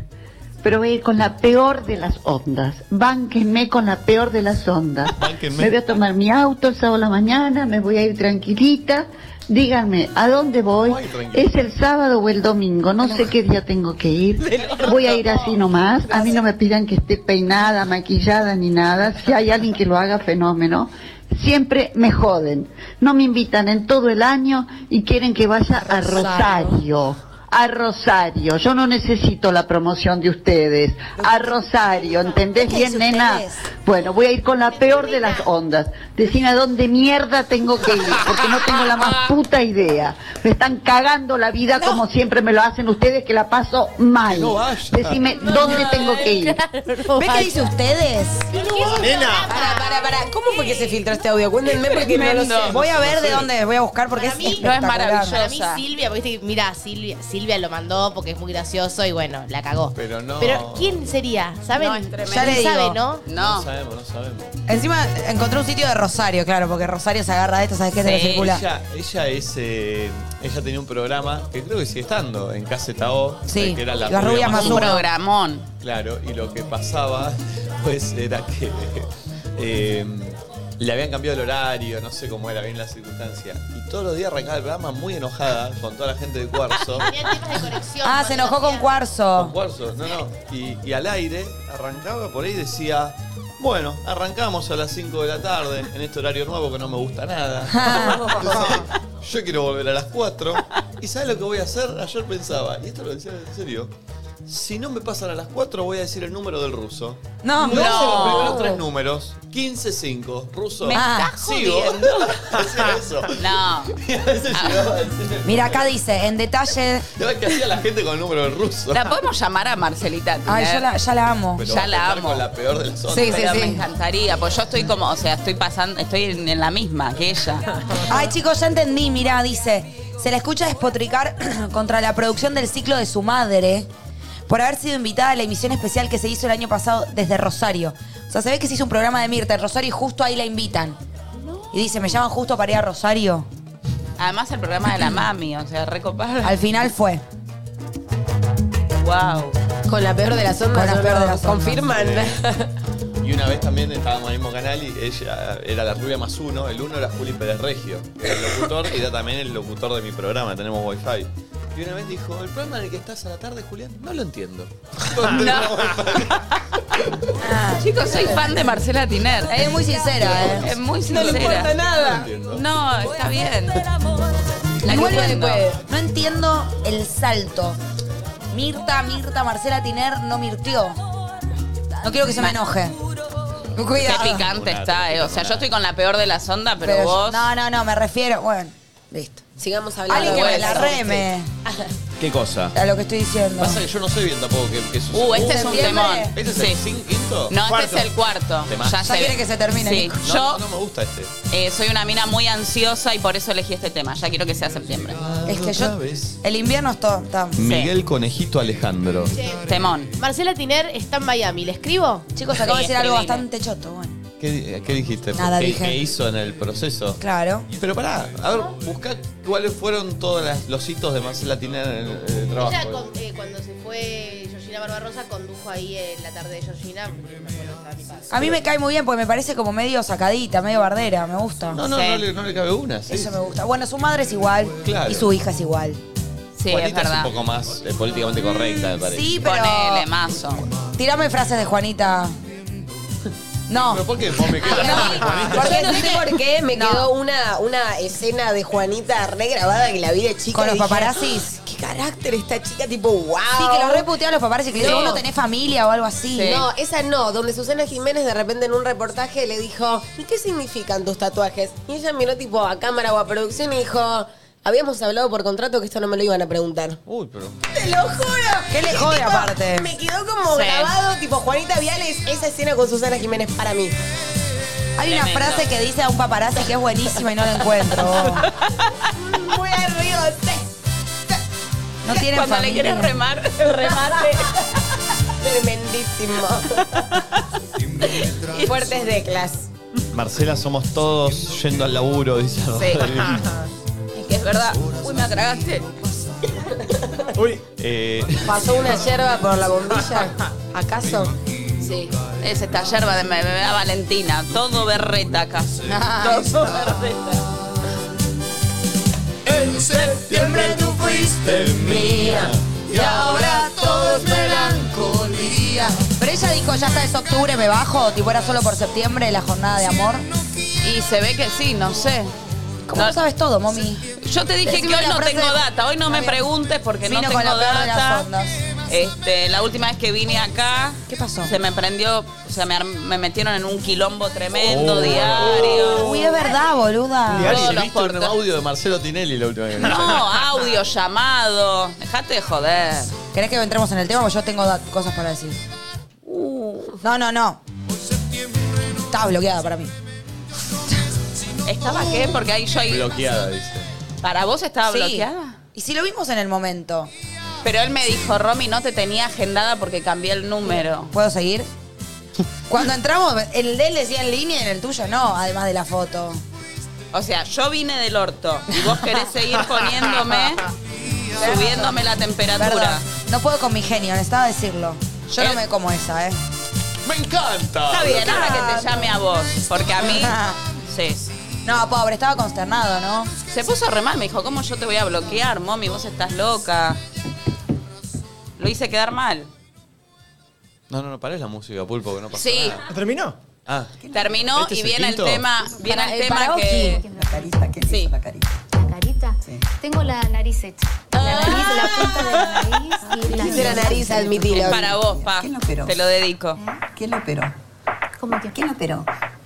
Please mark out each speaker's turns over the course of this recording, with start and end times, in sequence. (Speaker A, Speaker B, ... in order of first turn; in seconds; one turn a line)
Speaker A: 0.6-46.6
Speaker B: 5.2-6.0
Speaker B: 10.8-11.6
Speaker C: 14.6-15.6
Speaker D: 25.9-26.7
Speaker D: 31.2-31.5
Speaker D: 32.4-33.7
Speaker C: 34.6-35.5
Speaker B: 44.2-45.2
Speaker C: 45.4-47.7
Speaker E: 45.5-46.2
Speaker D: 47.2-48.5
Speaker C: 48.5-51.0
Speaker F: 48.5-52.8
Speaker G: 49.0-49.5
Speaker E: 51.7-52.8
Speaker D: 52.7-55.4
Speaker B: 52.7-53.5
Speaker C: 54.1-54.7
Speaker E: 54.6-55.8
Speaker C: 55.3-63.2
Speaker B: 60.0-61.0
Speaker E: 61.8-62.7
Speaker D: 62.3-63.0
Speaker E: 63.2-63.7
Speaker B: 63.4-64.5
Speaker D: 64.7-68.7
Speaker E: 68.0-68.5
Speaker B: 68.3-75.0
Speaker D: 73.5-75.1
Speaker E: 74.5-75.7
Speaker B: 75.8-87.2
Speaker C: 86.9-89.0
Speaker D: 88.0-89.5
Speaker B: 89.4-103.9
Speaker D: 97.7-98.8
Speaker B: 104.5-115.9
Speaker D: 107.4-108.3
Speaker E: 107.6-108.7
Speaker E: 110.8-112.5
Speaker D: 110.9-111.3
Speaker E: 113.4-114.0
Speaker E: 114.5-114.9
Speaker D: 115.5-117.1
Speaker B: 117.1-119.2
Speaker E: 118.9-120.9
Speaker D: 120.5-121.7
Speaker B: 121.6-123.7
Speaker E: 121.7-122.4
Speaker E: 123.1-127.7
Speaker D: 128.1-133.9
Speaker D: 134.5-141.0
Speaker D: 141.7-143.5
Speaker E: 144.2-146.6
Speaker D: 146.4-147.2
Speaker E: 149.0-149.6
Speaker F: 149.9-152.7
Speaker D: 150.7-151.9
Speaker B: 151.9-152.4
Speaker B: 153.2-166.4
Speaker E: 165.2-166.6
Speaker D: 167.4-168.6
Speaker E: 167.8-169.7
Speaker D: 169.5-170.7
Speaker B: 170.2-172.6
Speaker E: 170.3-171.7
Speaker F: 171.1-172.3
Speaker E: 172.5-173.9
Speaker E: 174.8-175.6
Speaker F: 174.8-175.8
Speaker D: 174.8-177.8
Speaker D: 178.5-181.0
Speaker D: 182.0-183.0
Speaker D: 183.7-184.5
Speaker E: 184.0-187.5
Speaker B: 184.0-185.7
Speaker D: 186.8-189.4
Speaker F: 189.6-191.9
Speaker D: 190.1-191.5
Speaker E: 190.1-190.9
Speaker B: 192.2-192.8
Speaker D: 192.7-193.8
Speaker B: 193.6-197.7
Speaker E: 195.1-196.8
Speaker D: 195.3-196.3
Speaker E: 197.5-200.6
Speaker G: 197.7-198.0
Speaker B: 198.7-199.1
Speaker D: 199.0-200.2
Speaker B: 200.2-201.3
Speaker E: 201.5-205.2
Speaker B: 205.2-206.4
Speaker D: 205.4-207.6
Speaker B: 207.6-209.3
Speaker E: 207.6-207.9
Speaker C: 209.3-212.3
Speaker E: 209.7-210.1
Speaker D: 212.3-214.2
Speaker E: 212.6-213.4
Speaker B: 214.4-217.2
Speaker D: 215.4-216.0
Speaker D: 217.2-217.7
Speaker B: 217.8-223.0
Speaker C: 222.6-228.3
Speaker D: 228.3-231.8
Speaker B: 231.7-233.4
Speaker E: 231.8-232.2
Speaker D: 233.1-236.0
Speaker B: 234.8-235.3
Speaker E: 236.6-237.3
Speaker B: 236.7-239.3
Speaker D: 239.1-240.1
Speaker E: 239.4-240.7
Speaker D: 241.0-242.4
Speaker D: 243.7-247.1
Speaker B: 243.8-245.9
Speaker F: 244.7-254.1
Speaker E: 244.9-245.2
Speaker D: 250.5-251.6
Speaker D: 253.5-256.6
Speaker F: 254.8-255.2
Speaker E: 254.8-255.2
Speaker E: 256.4-256.6
Speaker F: 256.4-267.0
Speaker B: 267.1-267.6
Speaker F: 267.7-274.0
Speaker D: 268.7-269.9
Speaker E: 270.5-270.9
Speaker D: 275.0-278.5
Speaker E: 275.1-275.7
Speaker E: 278.4-279.1
Speaker F: 279.2-280.7
Speaker D: 282.0-283.2
Speaker E: 282.1-284.6
Speaker F: 283.7-284.5
Speaker F: 285.4-287.0
Speaker E: 287.0-287.2
Speaker E: 288.1-288.7
Speaker F: 288.4-289.7
Speaker B: 290.1-293.5
Speaker E: 292.8-293.2
Speaker E: 294.1-295.9
Speaker F: 296.6-297.3
Speaker G: 297.4-297.6
Speaker B: 297.8-298.9
Speaker F: 298.4-302.1
Speaker E: 302.3-307.4
Speaker D: 305.9-306.7
Speaker B: 309.5-313.7
Speaker D: 309.9-320.3
Speaker E: 320.8-322.3
Speaker D: 322.9-324.1
Speaker E: 324.2-328.3
Speaker D: 324.6-326.4
Speaker D: 327.1-328.6
Speaker E: 328.9-336.3
Speaker D: 331.1-331.6
Speaker B: 334.6-336.4
Speaker D: 335.8-337.8
Speaker E: 337.3-338.4
Speaker G: 337.3-337.7
Speaker B: 337.3-340.4
Speaker E: 339.8-343.1
Speaker D: 343.3-345.6
Speaker E: 346.3-347.0
Speaker D: 347.0-347.6
Speaker D: 349.1-349.9
Speaker E: 351.7-353.1
Speaker B: 352.9-353.9
Speaker E: 354.2-355.6
Speaker D: 354.9-357.1
Speaker E: 357.6-361.1
Speaker D: 361.1-361.7
Speaker D: 362.7-366.4
Speaker E: 367.1-370.7
Speaker D: 368.8-369.1
Speaker D: 371.4-371.9
Speaker E: 371.4-373.0
Speaker D: 372.6-376.4
Speaker B: 377.1-378.7
Speaker E: 377.9-380.4
Speaker D: 378.1-379.1
Speaker D: 380.0-380.6
Speaker E: 380.9-381.3
Speaker D: 381.6-383.3
Speaker E: 383.5-387.0
Speaker E: 388.6-389.5
Speaker B: 390.9-392.9
Speaker E: 392.4-392.8
Speaker G: 392.9-393.4
Speaker B: 393.7-395.4
Speaker H: 394.0-394.4
Speaker E: 394.1-397.0
Speaker F: 395.8-397.0
Speaker I: 396.8-397.5
Speaker H: 397.0-398.6
Speaker E: 397.9-398.1
Speaker I: 398.7-404.3
Speaker F: 401.1-402.0
Speaker E: 401.2-401.9
Speaker H: 403.0-406.0
Speaker F: 403.3-404.9
Speaker E: 404.5-406.6
Speaker H: 406.9-407.6
Speaker I: 408.2-408.6
Speaker H: 408.4-409.1